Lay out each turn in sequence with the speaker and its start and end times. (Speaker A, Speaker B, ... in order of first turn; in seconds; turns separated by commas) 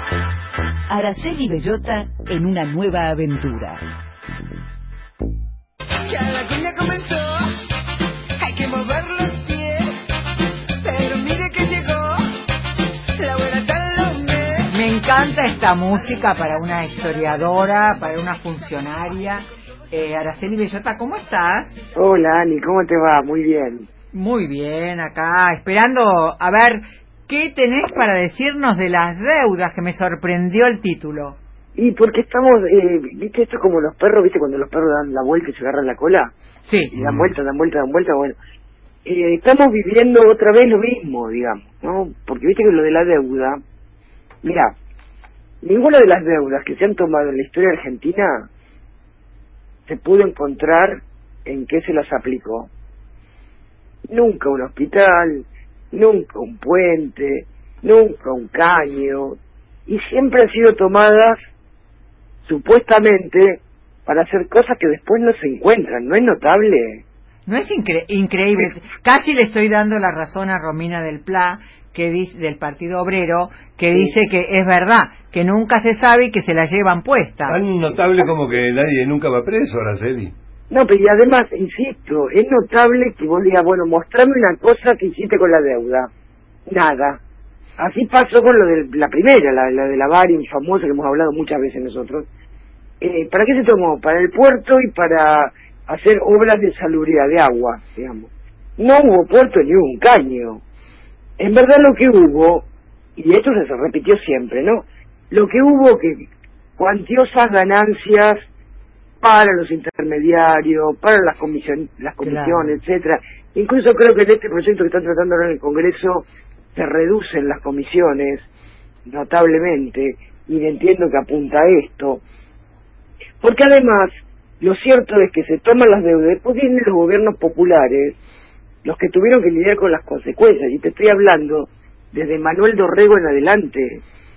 Speaker A: 0.9-3.8, Speaker B: 6.1-7.4, Speaker B: 8.4-9.9, Speaker B: 10.8-12.2, Speaker B: 13.2-14.7, Speaker C: 14.7-21.8, Speaker D: 21.9-23.9, Speaker C: 24.1-31.4, Speaker D: 31.8-36.3, Speaker C: 36.6-36.9, Speaker D: 36.9-38.4, Speaker E: 37.0-37.3, Speaker D: 39.1-43.6, Speaker D: 44.4-44.7, Speaker D: 45.6-48.5, Speaker D: 49.9-52.7, Speaker D: 54.1-61.4, Speaker D: 62.5-67.0, Speaker C: 67.5-77.6, Speaker E: 77.5-80.3, Speaker D: 80.7-86.1, Speaker D: 86.7-87.2, Speaker D: 87.8-92.3, Speaker D: 93.0-100.6, Speaker D: 101.4-102.7, Speaker D: 103.2-106.2, Speaker D: 106.8-108.4, Speaker D: 109.2-118.5, Speaker C: 112.2-112.8, Speaker D: 119.1-122.2, Speaker D: 123.4-128.2, Speaker D: 128.8-134.0